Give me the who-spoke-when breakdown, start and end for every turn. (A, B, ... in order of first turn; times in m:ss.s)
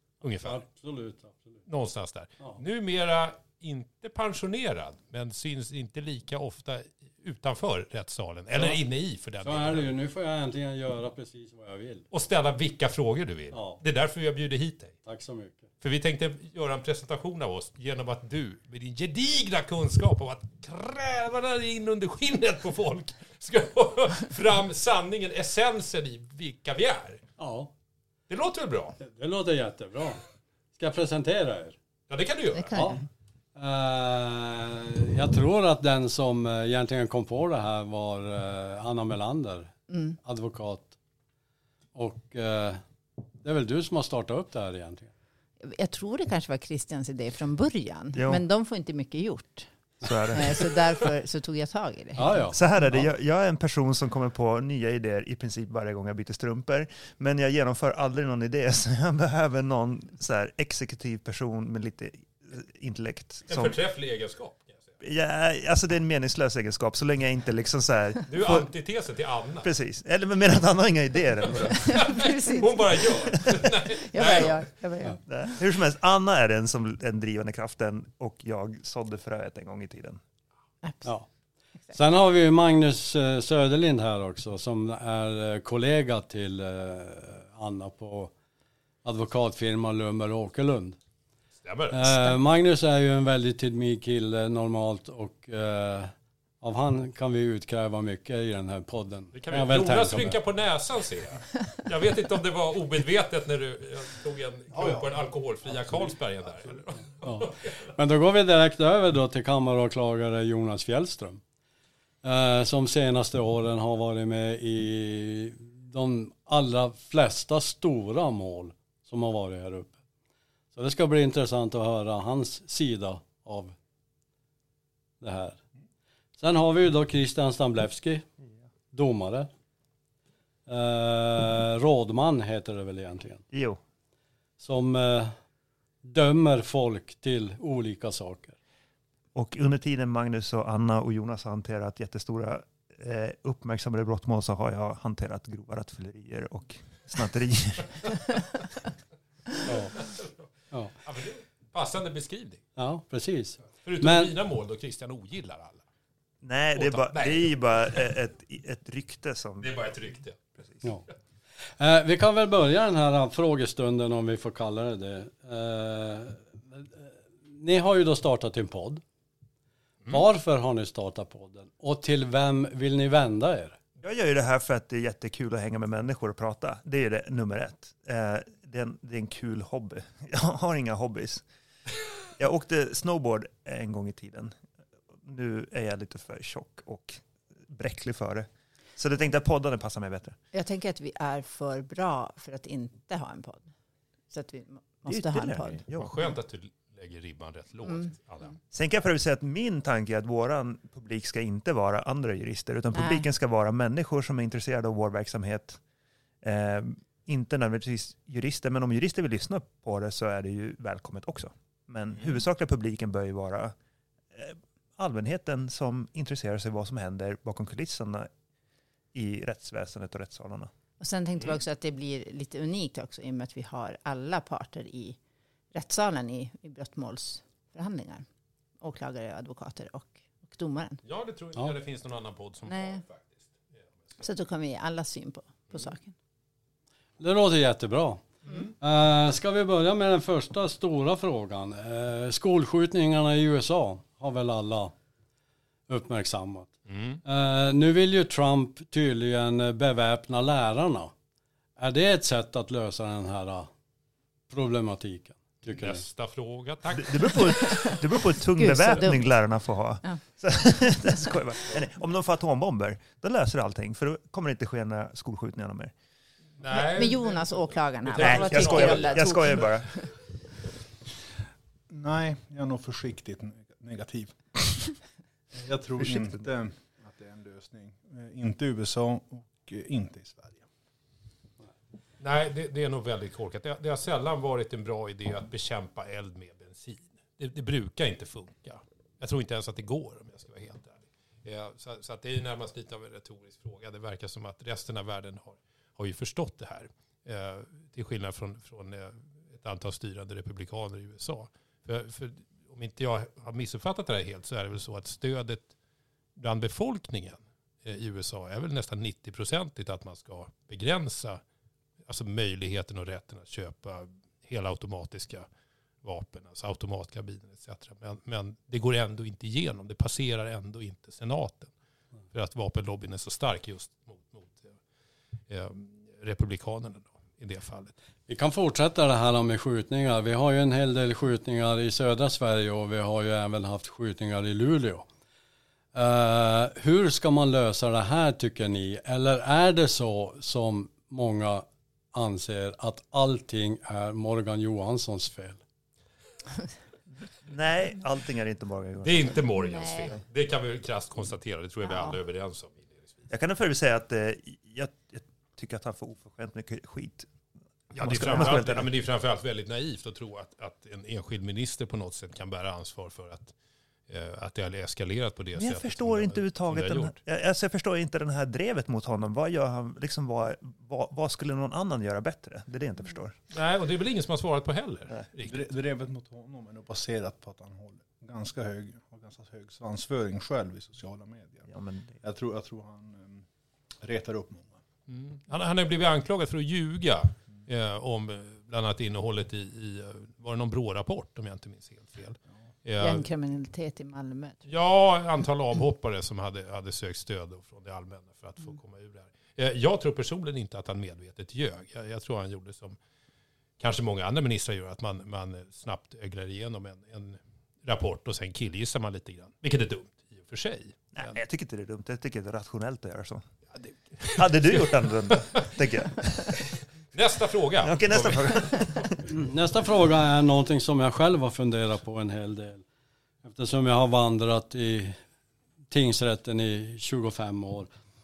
0:00.2-0:00.6 A
0:00.4-0:01.6 B
0:01.7-0:09.9 A
0:08.5-0:08.8 B
0:09.4-0:12.0 B
0:12.1-0:15.0 A
0:13.5-0:13.8 B
0:15.0-0:15.6 B
0:15.8-0:27.2 A
0:27.4-0:27.7 B
0:28.3-0:29.0 A
0:29.0-0:30.2 B
0:30.7-0:31.8 B
0:32.1-0:32.9 A
0:32.5-0:33.0 C
0:32.7-0:33.0 B
0:33.5-0:40.9 B
0:39.9-0:40.2 C
0:41.9-0:42.8 B
0:43.4-0:45.1 B
0:45.6-0:49.7 C
0:48.1-0:48.4 D
0:50.0-0:50.7 D
0:50.3-0:52.9 C
0:52.1-0:53.0 B
0:52.5-1:03.8 D
1:03.5-1:04.9 A
1:05.0-1:08.7 D
1:08.3-1:09.7 A
1:09.6-1:12.0 D
1:11.4-1:14.6 A
1:11.8-1:15.5 C
1:15.3-1:20.2 D
1:20.8-1:21.1 C
1:21.9-1:28.3 B
1:29.0-1:31.0 B
1:31.6-1:32.1 A
1:31.9-1:40.4 B
1:39.3-1:47.9 A
1:44.8-1:45.1 E
1:47.2-1:51.4 B
1:52.2-1:59.9 B
2:00.7-2:03.7 B
2:05.2-2:05.6 B
2:06.4-2:08.2 B
2:08.9-2:09.5 B
2:10.7-2:13.4 B
2:13.5-2:13.8 D
2:14.6-2:15.3 B
2:16.0-2:18.6 B
2:19.3-2:28.2 D
2:29.6-2:30.0 B
2:30.0-2:30.3 A
2:31.0-2:32.6 A
2:32.8-2:34.3 B
2:33.7-2:35.8 A
2:36.4-2:39.7 D
2:36.8-2:38.1 A
2:39.6-2:40.5 A
2:40.6-2:40.8 D
2:41.8-2:49.0 B
2:50.1-2:53.8 B
2:54.0-3:01.4 D
3:02.3-3:04.6 D
3:05.2-3:10.4 D
3:10.5-3:13.7 C
3:14.3-3:15.8 C
3:15.0-3:16.2 D
3:15.9-3:18.6 A
3:17.8-3:18.5 C
3:18.7-3:25.8 D
3:22.9-3:23.2 C
3:26.4-3:33.7 D
3:34.3-3:38.3 D
3:39.1-3:40.7 D
3:41.0-3:45.2 C
3:45.7-3:48.2 C
3:48.8-3:51.0 C
3:51.0-3:53.5 A
3:52.6-3:53.0 C
3:54.2-3:56.1 C
3:57.2-3:58.2 B
3:58.8-4:04.9 B
4:05.9-4:06.7 B
4:06.9-4:07.2 A
4:07.2-4:11.1 B
4:11.8-4:13.7 B
4:14.5-4:16.0 B
4:15.8-4:18.0 A
4:17.0-4:25.9 D
4:18.6-4:19.3 C
4:26.6-4:29.8 A
4:26.7-4:30.1 C
4:28.1-4:29.9 D
4:31.9-4:35.0 E
4:35.5-4:40.7 E
4:42.2-5:05.7 A
5:06.4-5:11.4 A
5:12.0-5:15.5 A
5:16.0-5:21.7 A
5:22.3-5:24.8 A
5:25.5-5:27.9 A
5:28.3-5:35.0 B
5:35.9-5:45.6 B
5:47.4-5:49.4 D
5:49.0-5:53.3 A
5:49.5-5:50.2 C
5:51.8-5:52.2 C
5:53.3-5:57.3 D
5:57.9-6:03.5 A
5:58.0-5:58.9 D
6:04.1-6:07.2 A
6:05.6-6:13.4 D
6:13.5-6:15.7 A
6:15.4-6:21.7 E
6:21.7-6:22.2 D
6:22.2-6:23.5 E
6:24.0-6:24.8 E
6:25.1-6:33.3 A
6:33.0-6:34.7 C
6:34.6-6:43.0 A
6:43.8-6:51.4 A
6:51.1-6:53.5 D
6:53.7-6:55.9 A
6:54.3-6:56.6 D
6:56.6-6:59.1 A
6:57.8-6:59.2 D
6:59.3-7:02.8 B
7:03.4-7:05.2 B
7:05.9-7:07.9 B